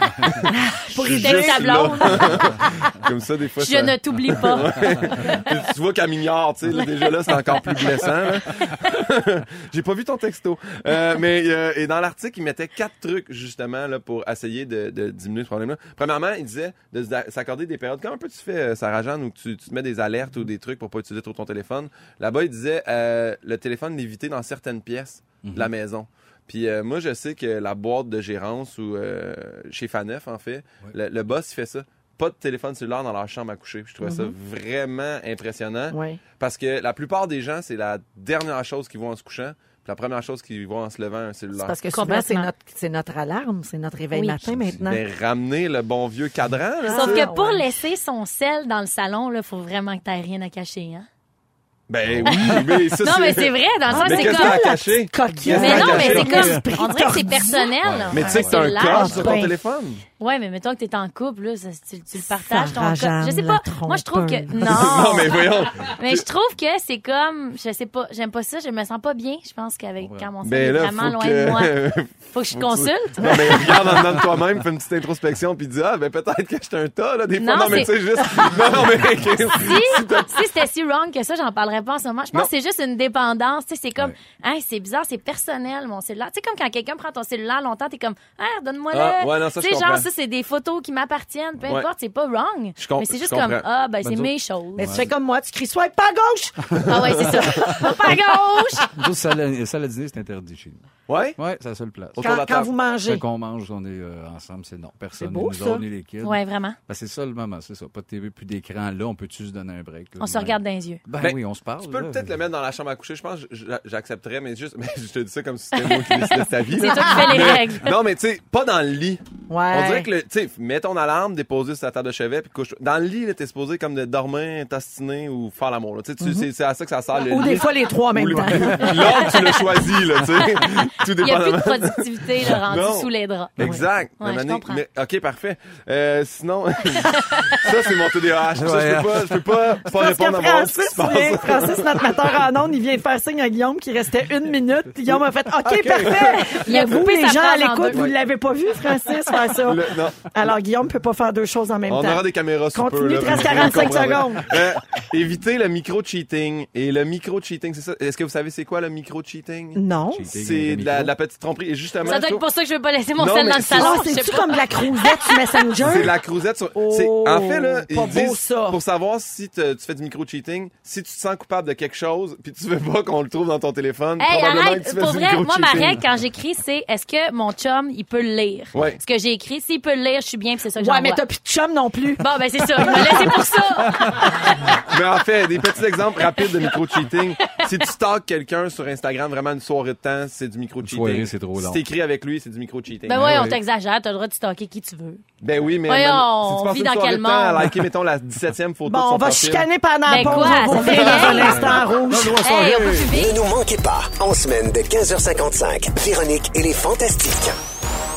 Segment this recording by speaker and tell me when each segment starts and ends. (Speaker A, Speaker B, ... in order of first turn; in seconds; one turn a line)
Speaker A: 0.2-41.8
Speaker B: 0.7-2.1
Speaker C: 0.7-2.2
Speaker C: 3.6-5.6
Speaker C: 8.6-8.9
Speaker D: 25.4-25.7
Speaker B: 34.0-34.3
Speaker B: 35.9-36.2
Speaker B: 41.5-45.0
Speaker C: 41.9-42.5
Speaker D: 44.2-44.9
Speaker A: 44.8-47.5
Speaker B: 46.8-47.7
Speaker C: 46.9-51.1
Speaker A: 51.9-56.6
Speaker D: 52.0-52.5
Speaker C: 52.2-54.6
Speaker B: 53.9-57.7
Speaker C: 55.5-59.4
Speaker D: 55.6-56.6
Speaker D: 57.8-59.0
Speaker A: 58.1-60.0
Speaker B: 58.8-59.5
Speaker C: 60.2-71.7
Speaker B: 62.1-65.3
Speaker A: 64.6-66.2
Speaker D: 70.0-70.3
Speaker A: 70.4-80.5
Speaker C: 72.3-73.7
Speaker C: 77.4-77.9
Speaker C: 79.5-95.0
Speaker A: 88.9-90.1
Speaker A: 92.8-93.6
Speaker D: 94.0-95.1
Speaker B: 94.8-98.8
Speaker C: 96.8-98.9
Speaker D: 98.9-102.2
Speaker A: 101.1-101.4
Speaker A: 102.2-102.7
Speaker B: 102.2-103.2
Speaker D: 103.1-112.4
Speaker B: 105.2-105.8
Speaker C: 106.2-106.8
Speaker C: 110.2-111.0
Speaker A: 111.2-142.2
Speaker B: 116.7-117.6
Speaker C: 116.8-118.0
Speaker B: 119.5-120.1
Speaker B: 126.2-126.5
Speaker B: 127.2-129.6
Speaker C: 128.8-129.5
Speaker C: 131.2-133.5
Speaker C: 134.2-134.8
Speaker C: 137.0-137.6
Speaker D: 138.5-139.8
Speaker B: 139.9-154.6
Speaker A: 145.1-146.9
Speaker D: 145.7-146.0
Speaker C: 146.4-148.1
Speaker A: 149.6-150.3
Speaker A: 151.9-162.4
Speaker B: 159.8-160.3
Speaker D: 160.1-161.1
Speaker C: 162.0-165.7
Speaker A: 163.2-164.0
Speaker B: 163.7-166.1
Speaker A: 165.8-176.0
Speaker B: 166.8-168.8
Speaker C: 174.2-181.2
Speaker A: 178.7-179.0
Speaker B: 180.8-183.4
Speaker C: 182.2-184.7
Speaker A: 184.9-193.3
Speaker D: 190.8-191.8
Speaker C: 193.1-195.2
Speaker D: 193.1-193.6
Speaker A: 195.4-199.7
Speaker C: 195.9-197.7
Speaker B: 198.8-202.4
Speaker C: 200.1-201.8
Speaker A: 200.2-203.0
Speaker D: 201.1-201.8
Speaker C: 202.3-203.3
Speaker E: 203.1-207.5